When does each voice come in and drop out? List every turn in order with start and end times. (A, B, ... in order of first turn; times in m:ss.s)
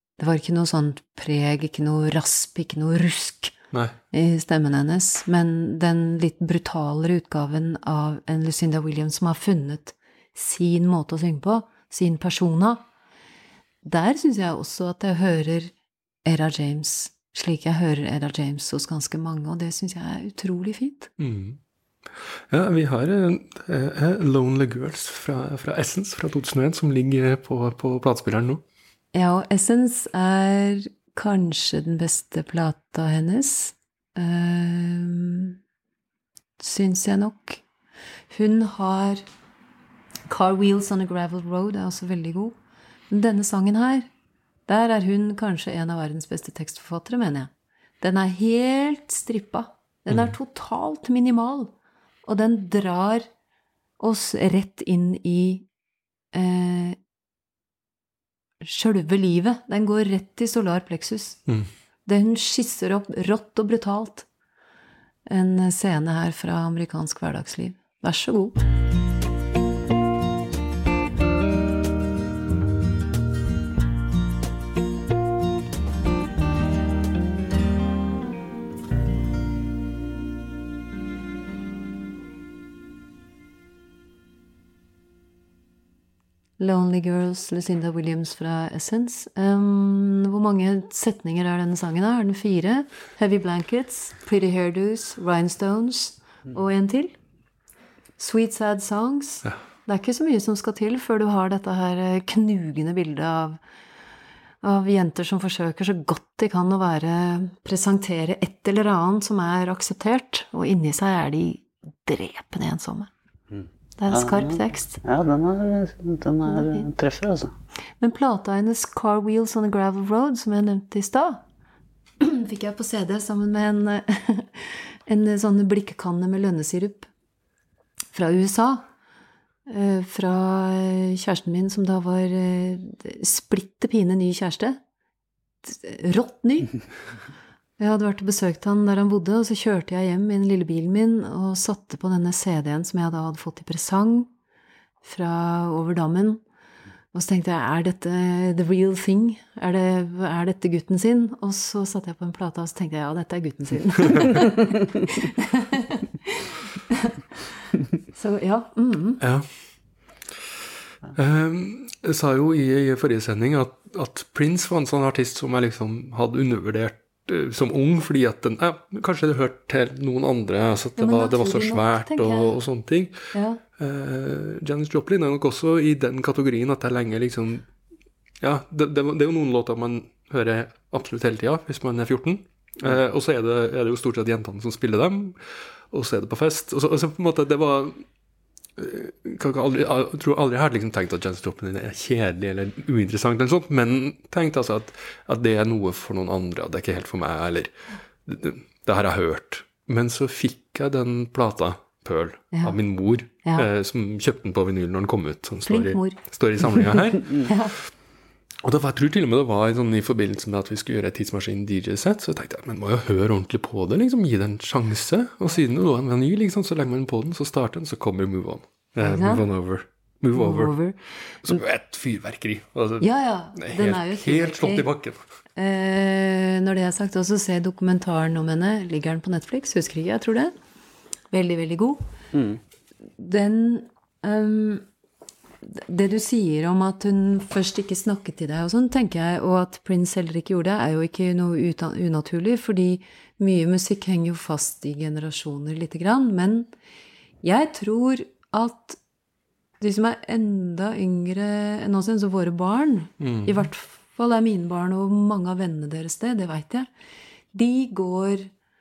0:00.2-0:03.5 A
0:04.1-0:12.8 A
0:13.8-0:15.7 A
0:16.2-0:21.1 A
0:21.2-0:21.6 B
0:22.5-0:28.6 B
0:29.1-0:35.6 A
0:36.6-0:37.6 A
0:38.3-0:39.2 A
0:40.3-0:42.6 A
0:43.1-0:44.1 A
0:44.7-0:51.7 A
0:52.2-0:53.3 A
0:54.0-0:55.7 A
0:56.3-0:57.0 A
0:58.6-1:01.4 A
1:02.0-1:04.3 A
1:05.3-1:08.6 A
1:26.6-1:37.1 A
1:38.2-1:43.6 A
1:44.6-1:53.1 A
1:53.5-1:57.5 C
1:54.0-1:55.0 A
1:56.5-1:56.9 A
1:58.0-2:01.4 A
2:02.2-2:07.1 A
2:08.1-2:08.8 A
2:09.7-2:14.8 A
2:15.6-2:16.7 A
2:17.8-2:24.3 A
2:25.0-2:26.4 A
2:27.1-2:37.1 A
2:38.1-2:39.2 A
2:39.2-2:39.5 B
2:41.1-2:53.2 B
2:51.0-2:52.5 A
2:53.3-2:53.6 A
2:53.8-2:57.6 B
2:58.4-3:05.4 B
3:05.9-3:08.0 B
3:08.8-3:17.7 B
3:18.2-3:27.5 B
3:25.6-3:26.2 A
3:27.4-3:27.7 A
3:28.6-3:40.8 B
3:39.0-3:39.4 A
3:40.3-3:41.6 A
3:41.4-3:45.2 B
3:43.0-3:44.9 A
3:45.6-3:50.5 A
3:51.3-3:52.0 A
3:52.3-3:52.6 C
3:53.2-3:54.8 A
3:55.6-4:06.7 A
4:07.4-4:09.0 A
4:09.8-4:16.9 A
4:13.2-4:13.7 B
4:17.5-4:18.5 A